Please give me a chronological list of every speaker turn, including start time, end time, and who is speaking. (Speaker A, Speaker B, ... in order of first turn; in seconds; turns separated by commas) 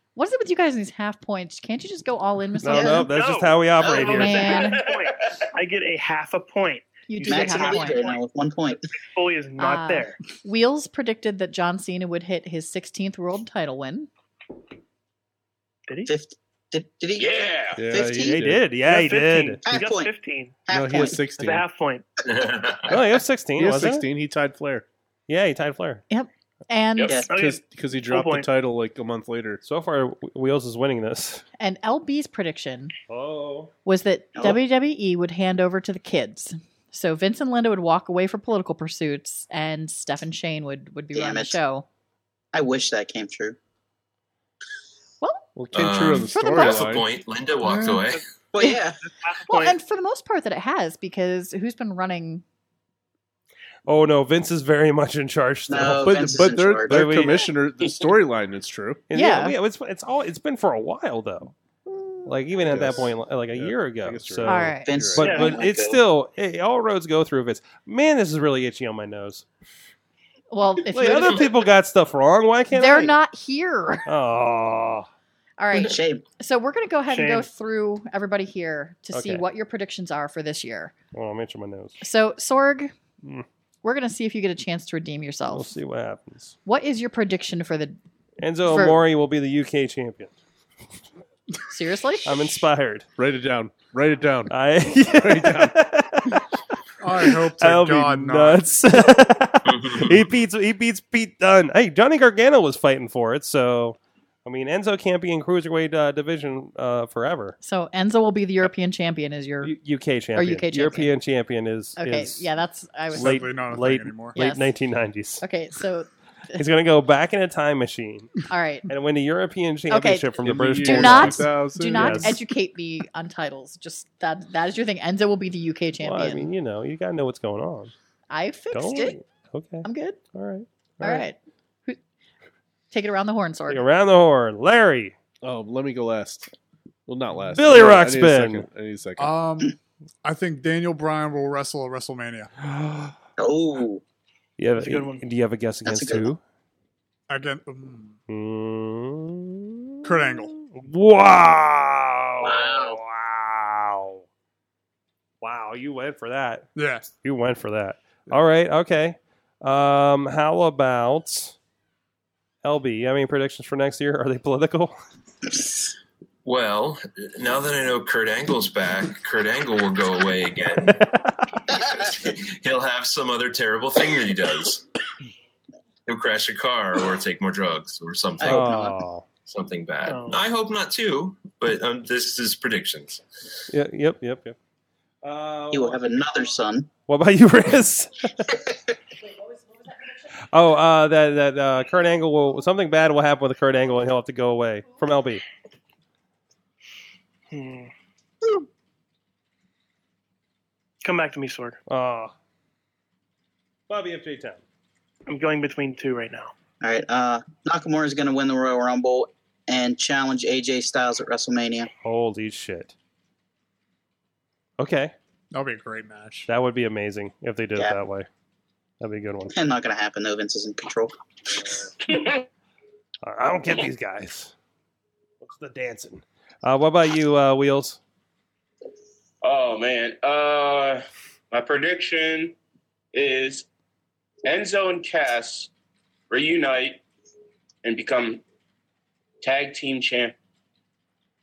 Speaker A: 0.2-3.1, Speaker B: 2.6-4.5, Speaker C: 2.7-8.2, Speaker D: 3.8-4.6, Speaker A: 4.0-4.8, Speaker E: 4.8-5.4, Speaker A: 7.1-8.1, Speaker D: 7.2-8.8, Speaker C: 9.1-10.2, Speaker A: 9.6-14.1, Speaker D: 16.1-18.4, Speaker E: 17.1-17.9, Speaker F: 17.8-18.7, Speaker B: 18.3-19.6, Speaker C: 18.9-20.5, Speaker D: 19.7-20.1, Speaker D: 20.7-21.2, Speaker F: 20.7-21.6, Speaker C: 21.4-22.0, Speaker G: 22.2-23.0, Speaker B: 22.9-24.1, Speaker F: 23.6-24.9, Speaker B: 25.3-26.0, Speaker A: 26.1-27.2, Speaker D: 27.0-27.3, Speaker C: 27.3-28.5, Speaker F: 27.3-29.6, Speaker B: 29.6-31.4, Speaker A: 31.6-32.9, Speaker B: 33.1-33.7, Speaker A: 33.9-41.9, Speaker D: 34.4-34.6, Speaker D: 41.1-41.6, Speaker D: 42.5-43.6, Speaker A: 45.2-45.5, Speaker F: 45.6-47.1, Speaker G: 45.7-48.2, Speaker A: 46.2-46.9, Speaker H: 47.6-48.0, Speaker D: 48.5-49.0, Speaker C: 49.0-49.8, Speaker A: 49.5-52.4, Speaker B: 53.9-56.3, Speaker D: 55.7-57.2, Speaker F: 55.8-59.0, Speaker B: 56.9-57.5, Speaker B: 59.1-61.5, Speaker A: 59.1-59.6, Speaker B: 62.3-69.5, Speaker F: 62.7-65.4, Speaker A: 64.5-64.9, Speaker D: 64.8-66.0, Speaker C: 65.2-65.5, Speaker A: 70.5-71.5, Speaker B: 70.9-73.2, Speaker A: 72.7-74.0, Speaker B: 74.1-75.1, Speaker A: 75.6-80.9, Speaker D: 75.7-76.2, Speaker C: 77.1-77.5, Speaker B: 79.1-79.5, Speaker B: 81.1-82.0, Speaker A: 82.0-82.9, Speaker A: 83.8-85.8, Speaker B: 85.5-86.5, Speaker A: 86.7-88.0, Speaker B: 88.4-90.3, Speaker A: 88.7-89.0, Speaker A: 91.7-92.5, Speaker B: 92.2-93.1, Speaker F: 93.2-95.8, Speaker B: 94.5-96.4, Speaker H: 97.0-98.7, Speaker B: 97.3-107.6, Speaker G: 99.7-100.3, Speaker A: 107.6-109.7, Speaker B: 109.6-112.5, Speaker A: 110.4-111.1, Speaker A: 112.0-113.5, Speaker H: 113.1-114.4, Speaker B: 113.1-115.4, Speaker A: 114.3-114.7, Speaker A: 115.4-116.7, Speaker B: 116.6-118.4, Speaker A: 118.5-118.9, Speaker B: 118.9-122.4, Speaker A: 119.9-126.5, Speaker F: 120.4-122.4, Speaker B: 126.0-127.9, Speaker A: 128.3-129.2, Speaker B: 128.7-131.3, Speaker A: 129.8-130.2, Speaker A: 131.0-132.0, Speaker A: 132.9-133.8, Speaker B: 133.7-135.2, Speaker F: 135.4-136.5, Speaker F: 137.1-139.3, Speaker B: 137.5-138.7, Speaker H: 139.2-142.5, Speaker B: 142.7-143.1, Speaker D: 143.4-144.0, Speaker B: 144.6-146.4, Speaker C: 144.8-145.2, Speaker D: 145.9-146.3, Speaker H: 147.3-148.2, Speaker B: 148.3-154.2, Speaker H: 150.0-150.5, Speaker D: 152.4-153.0, Speaker B: 155.4-156.7, Speaker H: 156.8-157.1, Speaker B: 157.2-161.6, Speaker B: 162.6-165.0, Speaker G: 166.4-171.2, Speaker D: 171.7-172.2, Speaker G: 171.9-174.8, Speaker G: 176.1-178.8, Speaker D: 178.4-179.0, Speaker B: 178.4-179.2, Speaker G: 179.4-183.2, Speaker C: 180.1-180.4, Speaker B: 183.7-184.6, Speaker B: 185.2-186.0, Speaker D: 185.7-186.9, Speaker B: 187.1-188.5, Speaker B: 190.5-195.4, Speaker C: 197.5-197.9, Speaker C: 201.0-201.8, Speaker B: 201.9-202.3, Speaker B: 203.9-204.6, Speaker C: 205.3-206.5, Speaker D: 206.8-211.9, Speaker B: 212.0-212.9, Speaker B: 214.8-215.1, Speaker H: 215.5-216.5, Speaker B: 216.5-218.3, Speaker B: 219.0-219.5, Speaker D: 219.5-221.1, Speaker E: 222.1-222.4, Speaker B: 223.2-224.5, Speaker B: 225.4-228.0, Speaker E: 229.4-232.6, Speaker E: 233.1-233.7, Speaker E: 234.4-235.7, Speaker E: 236.3-237.0, Speaker E: 237.8-238.4, Speaker E: 239.4-240.3